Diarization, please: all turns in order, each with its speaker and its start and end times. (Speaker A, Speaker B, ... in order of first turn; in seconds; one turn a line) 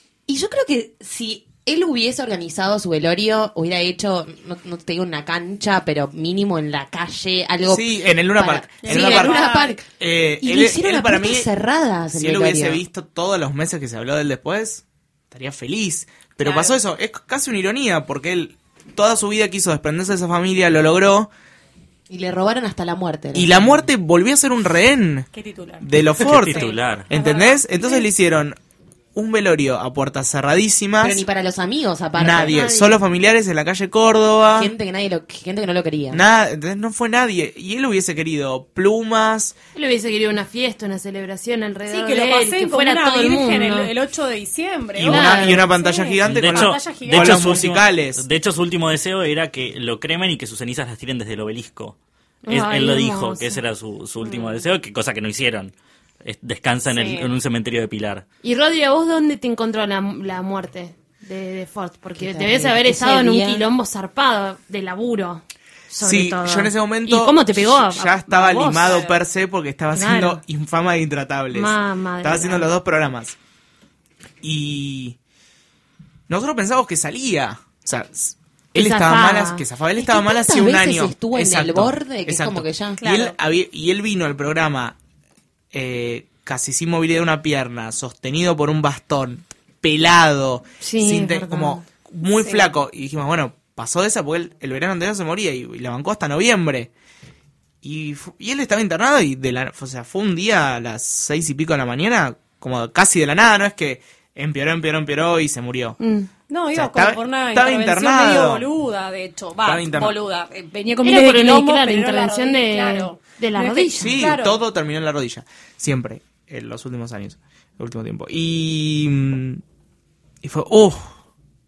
Speaker A: 0.3-9.9
Speaker B: 7.6-11.5
Speaker C: 8.8-9.8
Speaker A: 10.4-12.8
Speaker B: 12.1-21.3
Speaker C: 16.4-16.8
Speaker A: 22.1-23.8
Speaker B: 23.3-25.3
Speaker C: 25.3-25.9
Speaker B: 25.8-28.6
Speaker D: 26.2-27.1
Speaker C: 26.4-28.1
Speaker B: 29.1-31.2
Speaker A: 31.0-32.6
Speaker B: 32.1-34.7
Speaker E: 32.5-33.0
Speaker A: 34.5-36.2
Speaker B: 36.1-39.5
Speaker E: 39.8-43.9
Speaker C: 41.9-47.6
Speaker B: 45.0-48.2
Speaker E: 45.1-45.6
Speaker D: 46.2-52.0
Speaker E: 52.5-53.6
Speaker D: 52.5-55.7
Speaker C: 54.2-54.6
Speaker D: 56.2-58.2
Speaker C: 56.9-57.3
Speaker E: 58.4-69.0
Speaker A: 62.2-63.6
Speaker B: 66.0-73.3
Speaker C: 68.8-69.2
Speaker E: 69.9-70.4
Speaker E: 71.5-72.7
Speaker B: 74.4-75.2
Speaker B: 76.3-85.0
Speaker E: 78.7-79.6
Speaker A: 80.0-83.0
Speaker C: 83.0-83.3
Speaker B: 85.7-96.9
Speaker E: 90.8-91.8
Speaker C: 92.4-92.7
Speaker B: 97.8-106.0
Speaker E: 106.0-106.3
Speaker C: 106.5-114.6
Speaker B: 106.7-108.7
Speaker B: 109.6-110.2
Speaker E: 111.0-114.2
Speaker B: 114.0-119.6
Speaker B: 120.4-121.1